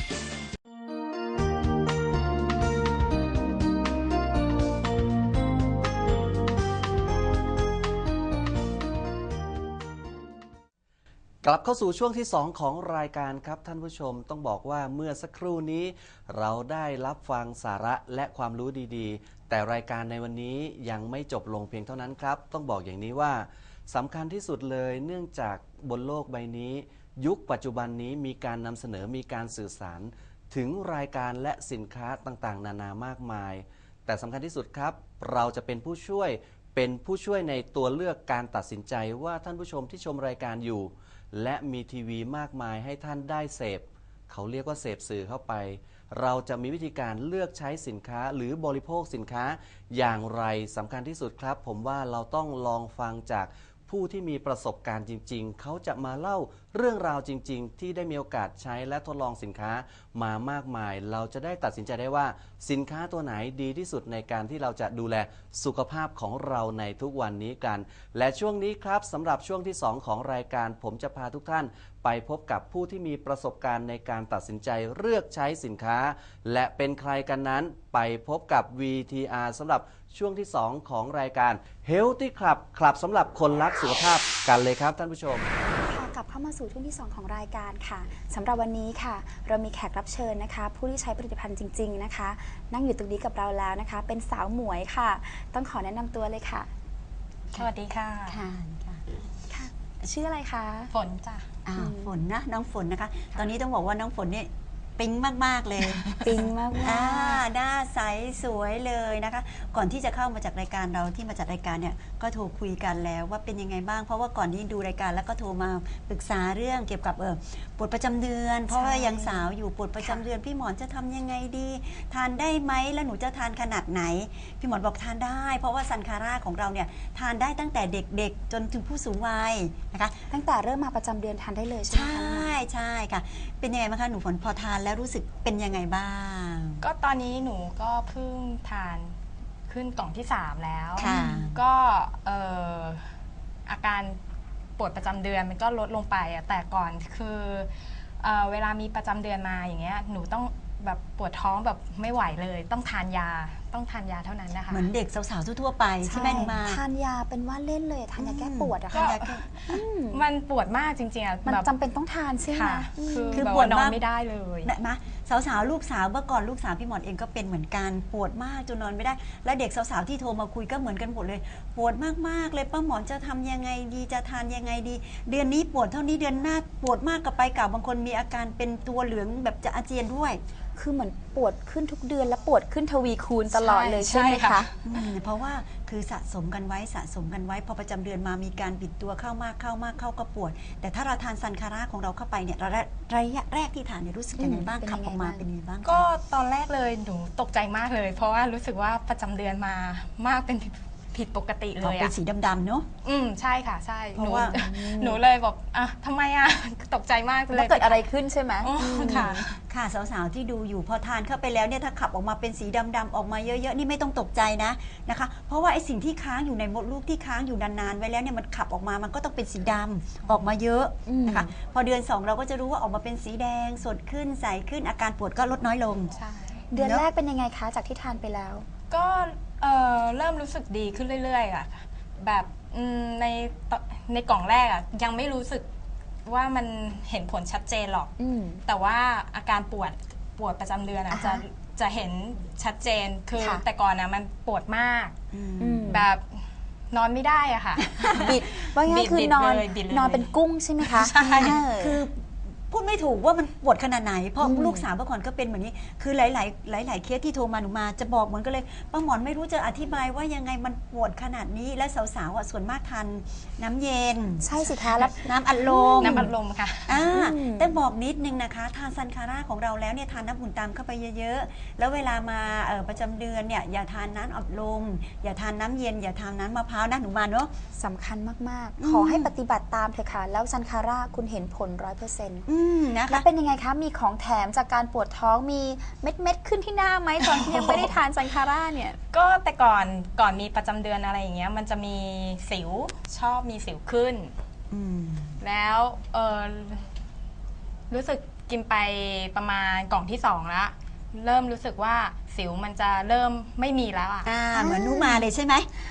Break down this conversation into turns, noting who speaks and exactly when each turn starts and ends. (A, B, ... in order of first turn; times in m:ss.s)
0:11.4-1:25.5 A
1:25.8-1:36.7 B
1:37.5-1:38.4 C
1:38.3-1:39.0 D
1:39.5-1:40.9 B
1:40.9-1:41.5 C
1:41.6-1:46.2 D
1:41.8-1:42.1 B
1:45.9-1:46.4 C
1:46.2-1:47.4 B
1:46.8-2:10.2 D
1:58.7-2:00.2 B
2:10.3-2:12.5 B
2:11.9-2:16.8 D
2:16.8-2:19.2 C
2:19.7-2:23.1 C
2:21.0-2:21.6 D
2:21.0-2:21.4 B
2:23.7-2:24.2 C
2:24.8-2:34.9 C
2:34.7-2:36.8 D
2:36.0-2:40.2 B
2:36.2-2:36.5 C
2:38.2-2:39.5 D
2:38.9-2:41.7 C
2:41.4-2:43.5 B
2:42.5-2:44.7 C
2:43.3-2:44.0 D
2:44.6-3:00.4 D
3:00.8-3:04.7 B
3:03.5-3:04.8 C
3:04.8-3:16.0 D
3:14.4-3:15.4 B
3:15.8-3:22.1 C
3:21.8-3:22.9 D
3:23.0-3:28.0 C
3:24.1-3:24.5 D
3:24.5-3:25.2 B
3:27.5-3:29.4 B
3:28.6-3:29.6 C
3:28.9-3:46.1 D
3:41.0-3:41.5 B
3:46.2-3:46.6 C
3:46.7-3:48.6 B
3:46.8-3:47.0 D
3:48.9-3:55.7 C
3:56.2-3:58.1 C
3:58.2-3:58.6 B
3:58.6-4:05.2 C
4:01.1-4:01.4 B
4:03.4-4:03.6 B
4:05.3-4:05.9 D
4:05.6-4:06.0 B
4:05.8-4:11.6 C
4:08.0-4:08.3 D
4:08.1-4:12.0 B
4:11.1-4:24.5 D
4:14.4-4:14.9 B
4:24.4-4:26.3 B
4:25.1-4:26.3 D
4:26.0-4:27.0 C
4:26.9-4:37.5 D
4:27.1-4:27.8 B
4:37.8-4:42.5 B
4:38.8-4:39.3 D
4:42.5-4:43.2 D
4:43.1-4:49.0 B
4:47.2-4:47.9 C
4:49.1-4:54.3 C
4:54.7-4:55.4 D
4:55.4-4:56.9 C
4:57.9-5:04.3 C
5:04.2-5:05.7 D
5:04.5-5:05.3 B